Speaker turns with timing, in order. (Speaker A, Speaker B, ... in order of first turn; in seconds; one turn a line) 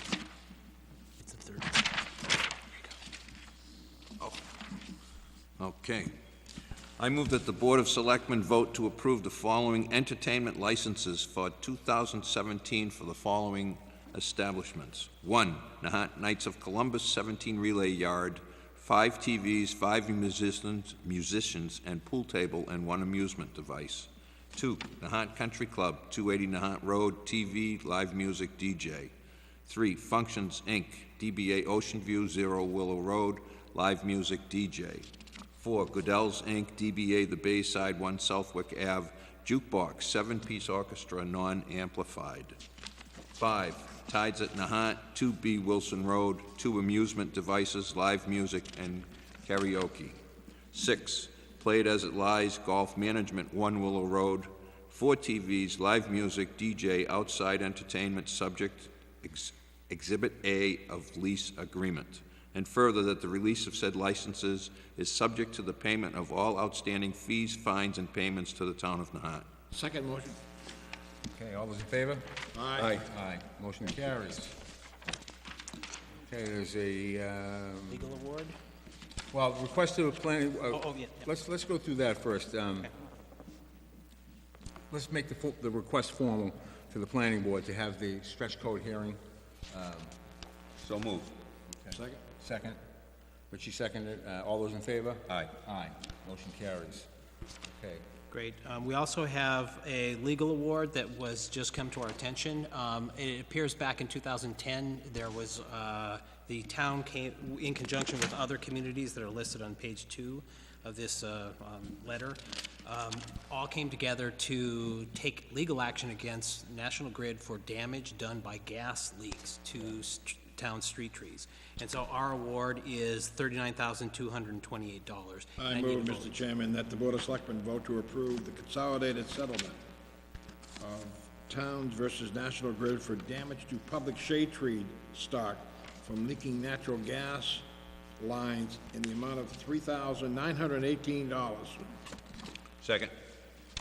Speaker A: 1.2-3.0
Speaker B: 5.6-6.1
Speaker B: 7.0-29.1
Speaker B: 29.7-35.1
Speaker B: 35.6-42.6
Speaker B: 43.4-50.2
Speaker B: 50.7-69.5
Speaker C: 69.7-70.4
Speaker D: 71.3-72.4
Speaker C: 72.5-73.0
Speaker B: 72.8-73.0
Speaker D: 72.9-74.6
Speaker D: 76.2-78.1
Speaker A: 77.9-78.6
Speaker D: 79.3-82.9
Speaker A: 80.7-81.2
Speaker D: 84.9-89.2
Speaker D: 89.7-90.1
Speaker B: 90.8-91.3
Speaker D: 91.8-92.8
Speaker C: 91.9-92.2
Speaker D: 93.5-97.1
Speaker B: 95.3-95.5
Speaker D: 97.7-98.0
Speaker A: 98.3-126.3
Speaker C: 125.6-129.8
Speaker C: 130.8-137.7
Speaker C: 138.2-141.8
Speaker B: 142.8-143.1